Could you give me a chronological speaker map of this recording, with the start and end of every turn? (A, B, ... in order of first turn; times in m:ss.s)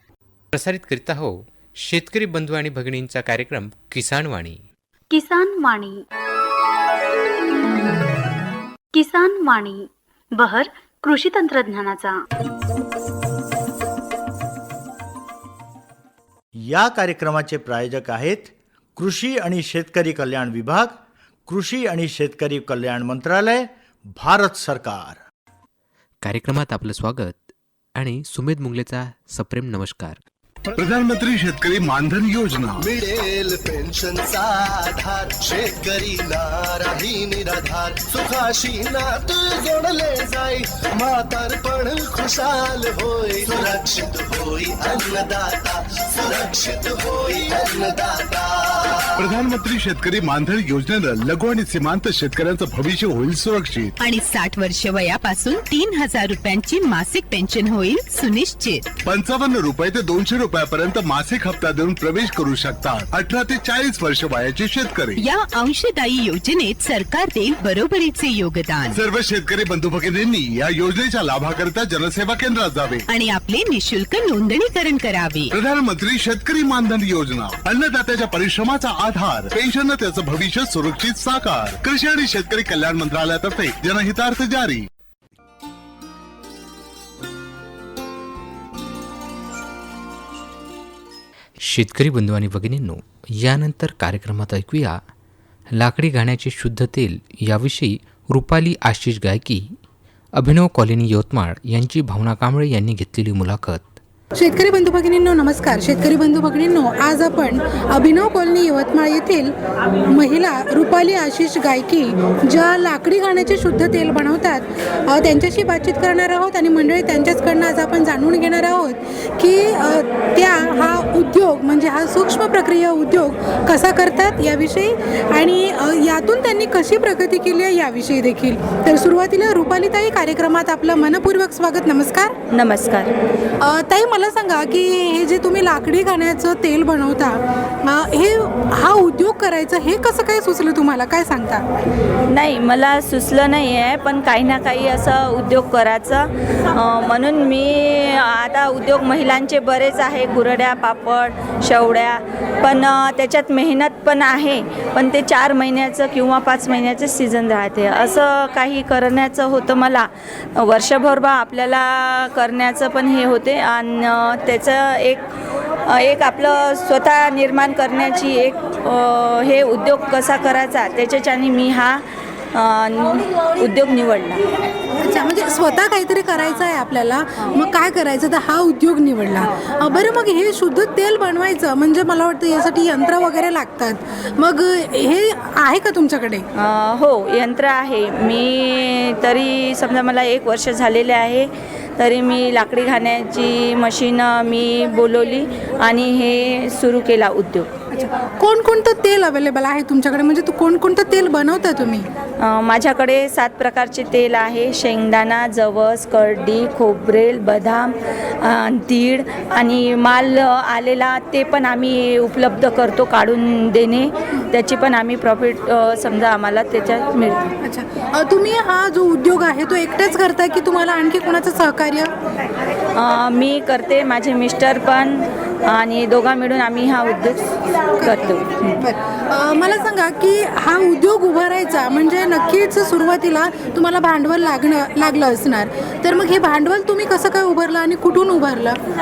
0:00.5-0:04.6 A
0:05.1-0:06.0 B
0:08.9-0:12.2 B
0:16.6-0:25.2 C
0:26.2-0:27.4 A
0:27.9-0:30.2 A
0:30.8-0:32.8 D
0:32.8-0:49.2 E
0:49.2-0:53.9 D
0:54.0-0:58.9 F
0:59.0-1:05.2 D
1:05.2-1:09.0 F
1:08.9-1:13.0 D
1:13.1-1:15.5 F
1:15.5-1:24.8 D
1:31.6-1:35.0 A
1:35.7-1:39.6 A
1:40.3-1:44.0 A
1:44.3-2:12.4 G
2:12.5-2:13.1 H
2:13.6-2:21.6 G
2:22.3-2:45.2 H
2:45.8-2:54.4 H
2:55.0-3:06.4 G
3:06.5-3:17.7 H
3:17.9-3:22.1 G
3:22.4-3:37.5 H
3:37.6-3:42.1 G
3:42.9-3:48.8 H
3:48.0-3:58.8 G